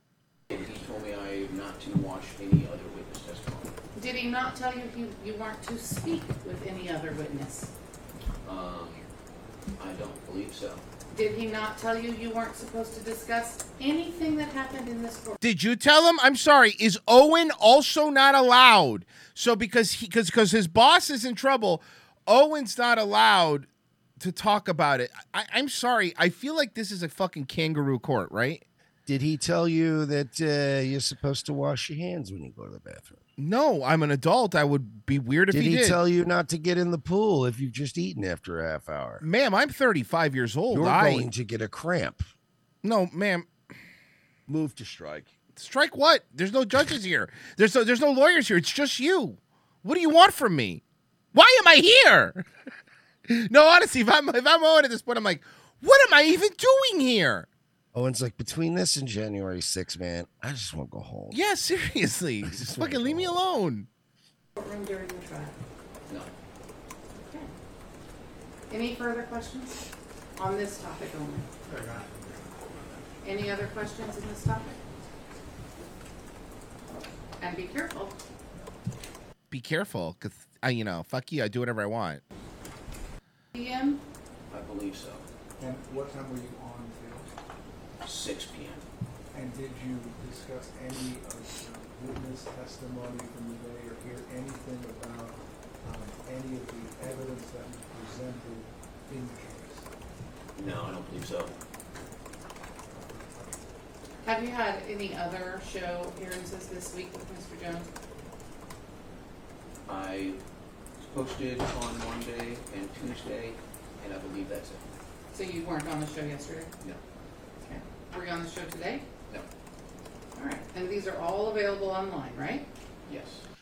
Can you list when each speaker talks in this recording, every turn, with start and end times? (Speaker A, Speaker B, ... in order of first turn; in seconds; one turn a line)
Speaker A: 0.5-3.7
Speaker B: 3.9-7.7
Speaker A: 8.4-9.1
Speaker A: 9.8-10.8
Speaker B: 11.1-15.4
Speaker C: 15.4-23.7
Speaker C: 24.2-28.6
Speaker D: 29.1-33.2
Speaker C: 33.4-36.0
Speaker D: 35.5-39.2
Speaker C: 39.2-41.3
Speaker D: 40.7-42.3
Speaker C: 42.8-43.5
Speaker D: 44.5-45.3
Speaker C: 45.5-50.8
Speaker C: 51.3-52.5
Speaker C: 53.3-57.5
Speaker D: 57.9-61.4
Speaker C: 61.3-63.9
Speaker D: 62.4-63.4
Speaker B: 64.5-65.5
Speaker B: 67.1-67.5
Speaker B: 68.7-71.5
Speaker E: 71.7-72.5
Speaker B: 73.2-74.8
Speaker B: 77.4-78.2
Speaker C: 79.5-82.2
Speaker B: 83.5-84.0
Speaker A: 84.5-85.2
Speaker E: 85.6-87.3
Speaker A: 88.0-88.8
Speaker E: 89.3-99.9
Speaker A: 100.5-101.5
Speaker E: 102.9-103.6
Speaker B: 104.2-107.9
Speaker A: 109.9-110.4
Speaker A: 111.0-114.9
Speaker B: 115.3-116.7
Speaker B: 117.6-119.0
Speaker B: 120.3-122.7
Speaker A: 123.0-123.5